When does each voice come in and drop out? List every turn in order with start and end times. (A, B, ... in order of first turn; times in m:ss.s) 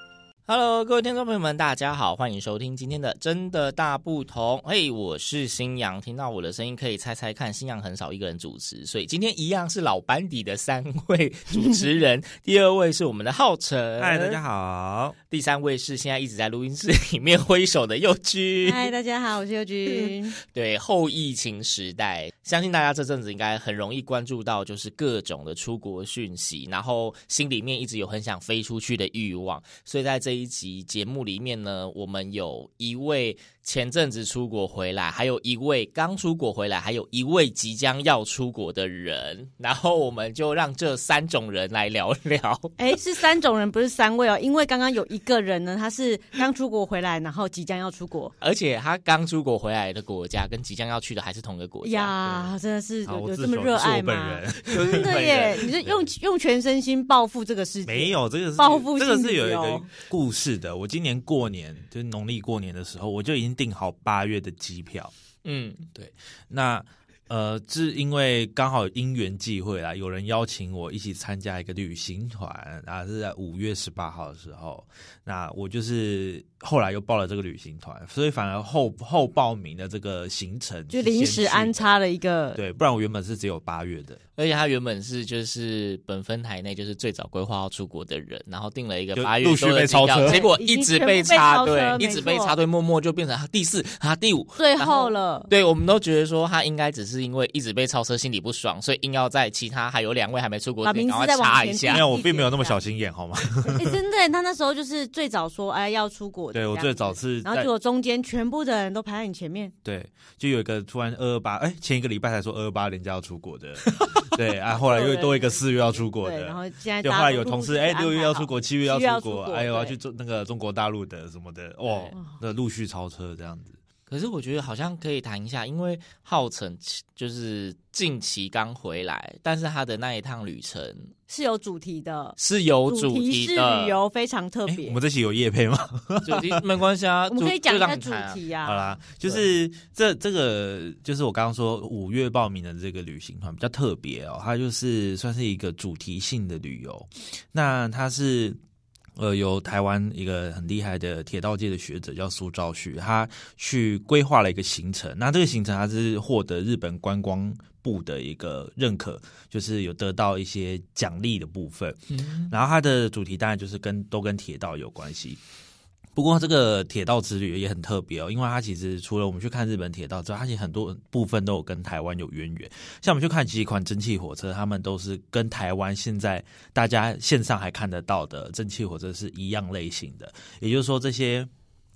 0:00.5-0:14.4 A
0:14.0-0:15.2 B
0:15.3-0:18.9 A
0:18.6-0:20.4 C
0:19.9-0:43.0 A
0:42.8-0:48.3 C
0:48.4-0:52.5 A
0:51.8-0:59.9 C
0:53.0-0:55.2 B
0:54.7-0:55.7 A
0:55.8-0:56.1 B
0:57.8-1:05.1 B
1:05.4-1:05.9 A
1:05.9-1:21.9 B
1:20.9-1:22.6 C
1:22.5-1:24.2 B
1:24.4-1:42.1 A
1:29.1-1:30.5 B
1:30.3-1:32.6 C
1:34.6-1:35.5 C
1:40.8-1:42.8 C
1:41.9-1:44.0 B
1:43.6-1:49.7 C
1:46.5-1:47.7 B
1:49.8-2:03.8 B
1:54.7-2:00.0 C
2:04.1-2:11.1 A
2:11.3-2:15.0 C
2:12.4-2:14.0 A
2:14.7-2:16.6 B
2:16.2-2:18.4 A
2:17.3-2:19.0 C
2:18.6-2:28.6 B
2:29.2-2:45.4 B
2:42.1-2:42.5 A
2:46.2-3:01.5 B